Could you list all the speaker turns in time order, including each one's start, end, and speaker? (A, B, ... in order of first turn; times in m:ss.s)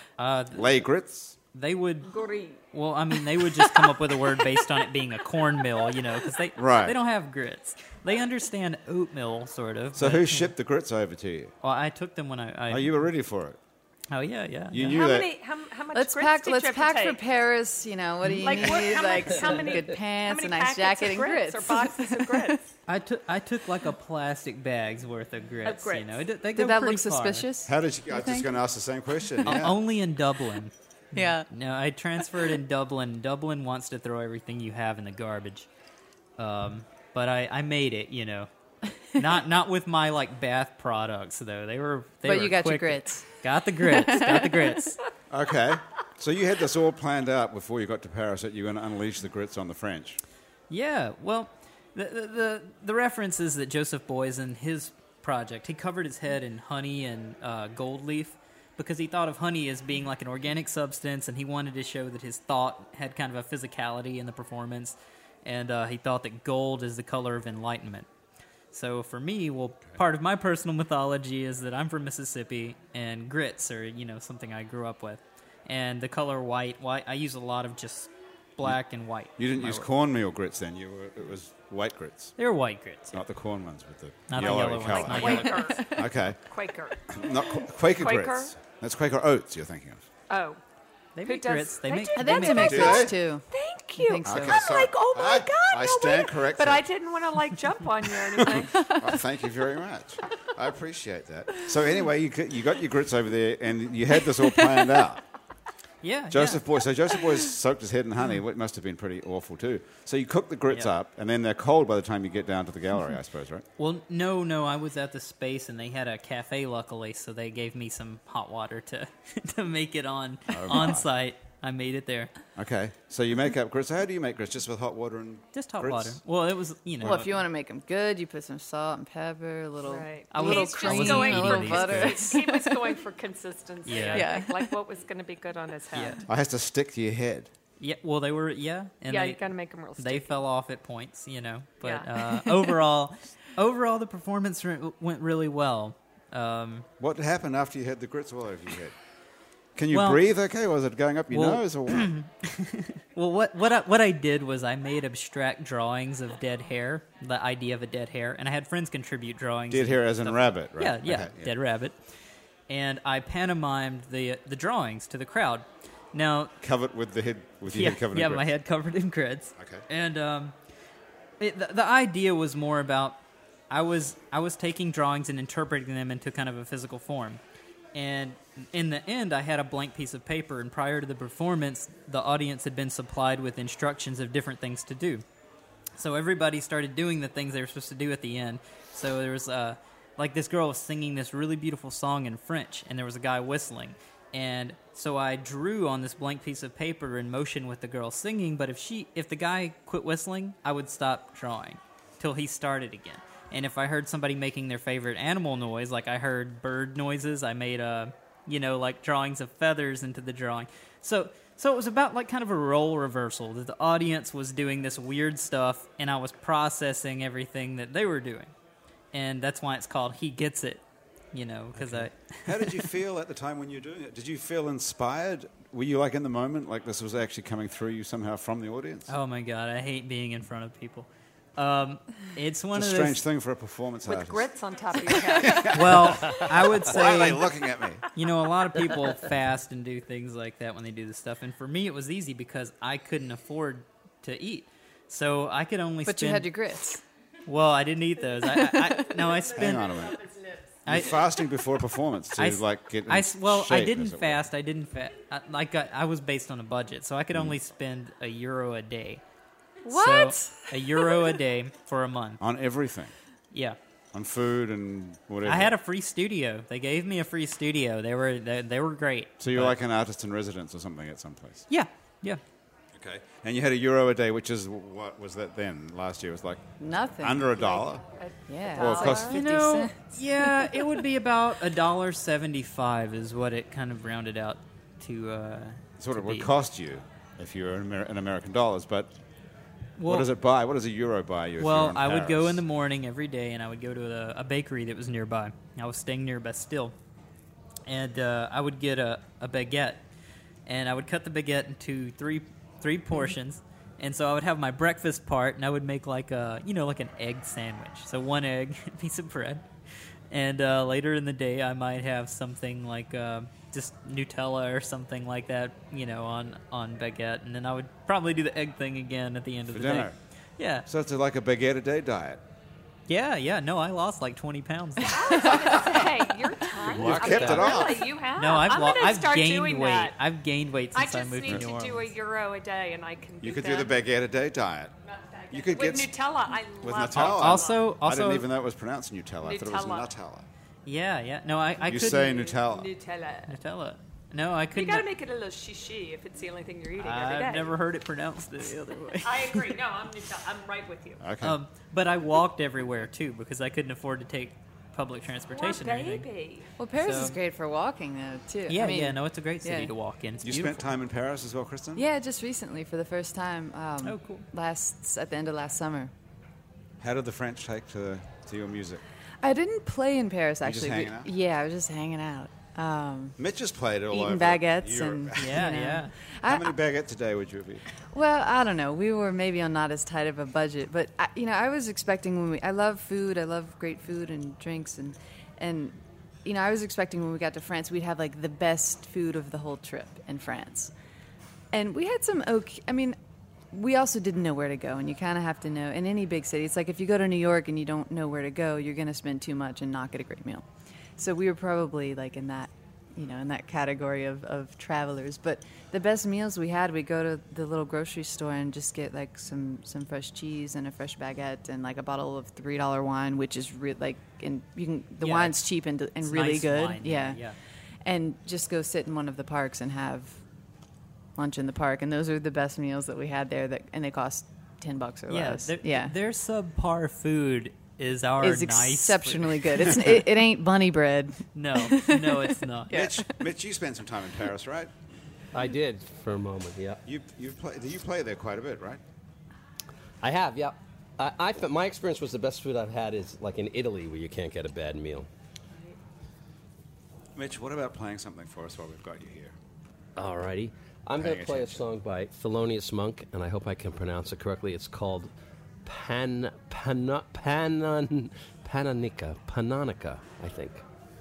0:00.2-0:00.7 A
0:00.5-0:01.4 B
0:01.5-0:02.1 A
0:02.1-0:02.6 C
0:02.7-0:10.5 A
0:06.6-0:07.0 B
0:10.0-0:11.5 B
0:11.6-0:13.0 A
0:12.7-0:13.6 B
0:14.1-0:15.0 A
0:14.7-0:15.3 B
0:14.8-0:17.2 C
0:15.9-0:22.6 D
0:18.3-0:22.6 C
0:22.9-0:27.5 A
0:25.6-0:26.2 C
0:26.5-0:28.5 D
0:27.6-0:29.8 B
0:29.4-0:35.7 A
0:31.1-0:31.5 D
0:36.4-0:38.5 A
0:39.1-0:45.0 A
0:42.2-0:43.3 D
0:43.8-0:44.7 D
0:45.3-0:50.2 B
0:50.7-1:08.1 A
1:08.7-1:19.9 A
1:19.4-1:22.3 B
1:22.4-1:23.2 A
1:23.1-1:26.4 B
1:24.3-1:25.7 A
1:24.4-1:27.1 C
1:25.5-1:26.0 D
1:27.1-1:30.0 B
1:27.9-1:28.5 C
1:30.3-1:30.6 C
1:31.2-1:33.0 A
1:31.2-1:39.0 C
1:32.2-1:33.4 D
1:32.5-1:33.2 B
1:34.0-1:34.6 D
1:34.2-1:36.8 B
1:38.2-1:45.2 B
1:38.6-1:39.2 D
1:46.0-1:46.6 A
1:46.3-1:53.6 B
1:53.8-2:02.3 A
2:00.5-2:01.0 B
2:02.6-2:06.2 B
2:05.5-2:07.4 A
2:07.0-2:12.9 D
2:09.8-2:16.2 C
2:10.3-2:12.3 A
2:13.8-2:14.3 A
2:14.1-2:14.7 D
2:15.9-2:16.2 A
2:16.2-2:17.5 B
2:17.8-2:19.4 A
2:19.1-2:20.4 C
2:20.0-2:26.9 A
2:21.8-2:22.1 C
2:27.0-2:29.0 B
2:29.8-2:32.1 B
2:29.9-2:30.2 A
2:31.3-2:42.0 A
2:39.7-2:41.5 B
2:42.7-2:46.5 A
2:46.6-2:48.5 B
2:47.7-2:50.5 A
2:49.6-2:49.8 B
2:51.4-2:53.2 A
2:53.7-2:57.4 A
2:57.9-3:05.2 A
3:06.0-3:38.5 A
3:39.1-3:42.9 A
3:41.7-3:49.1 B
3:49.1-3:53.2 A
3:52.7-3:54.5 B
3:54.1-3:55.8 C
3:55.0-3:58.0 B
3:55.7-3:57.4 A
3:58.1-4:06.5 A
4:06.0-4:07.0 D
4:07.4-4:09.9 A
4:08.4-4:09.3 D
4:09.4-4:10.6 C
4:09.5-4:10.2 B
4:10.8-4:14.4 B
4:10.9-4:11.2 A
4:12.4-4:19.2 A
4:19.8-4:21.3 D
4:19.8-4:22.4 A
4:22.4-4:23.1 B
4:23.5-4:23.8 A
4:24.1-4:25.7 B
4:25.4-4:29.8 A
4:29.4-4:31.7 B
4:31.7-4:32.4 A
4:32.9-4:38.0 B
4:36.8-4:37.7 D
4:37.6-4:39.3 C
4:38.5-4:40.9 D
4:38.7-4:39.4 B
4:39.0-4:46.5 A
4:46.0-4:49.2 B
4:50.0-4:50.3 A
4:50.0-4:52.6 B
4:51.6-4:56.9 A
4:57.8-5:00.0 A
5:00.6-5:09.6 A
5:10.3-5:20.9 A
5:19.7-5:20.1 B
5:20.9-5:22.4 B
5:23.1-5:25.4 A
5:25.0-5:30.2 C
5:25.8-5:26.0 B
5:26.8-5:28.1 B
5:26.9-5:27.7 E
5:28.4-5:32.1 A
5:30.9-5:34.0 C
5:33.4-5:34.9 B
5:35.0-5:37.8 C
5:35.5-5:36.1 B
5:36.8-5:40.5 B
5:37.1-5:38.4 A
5:39.4-5:40.1 C
5:40.8-5:42.4 A
5:41.9-5:42.9 B
5:41.9-5:43.6 C
5:43.5-5:45.0 A
5:44.7-5:47.8 C
5:47.0-5:49.8 A
5:49.2-5:51.2 C
5:51.2-5:51.6 B
5:51.4-5:56.3 A
5:55.5-5:56.7 C
5:56.8-5:59.9 D
5:57.0-5:57.4 A
5:58.7-6:00.9 A
6:00.4-6:02.0 B
6:02.0-6:06.1 D
6:04.0-6:04.5 A
6:07.0-6:09.0 B
6:09.4-6:13.4 D
6:10.6-6:11.3 B
6:13.4-6:15.8 B
6:14.1-6:16.7 D
6:15.4-6:16.1 A
6:16.4-6:17.8 B
6:18.1-6:30.9 D
6:31.7-6:33.2 D
6:33.7-6:40.6 D
6:41.2-6:57.4 D
6:55.2-6:55.6 A
6:56.2-6:57.6 A
6:58.0-7:00.4 D
7:01.4-7:06.1 D
7:05.3-7:10.2 A
7:08.4-7:13.3 D
7:11.5-7:12.9 A
7:12.9-7:14.9 B
7:15.5-7:17.0 E
7:17.0-7:19.0 B
7:20.2-7:25.3 E
7:27.4-7:29.5 B
7:30.2-7:35.3 E
7:31.2-7:31.8 B
7:35.8-7:40.8 E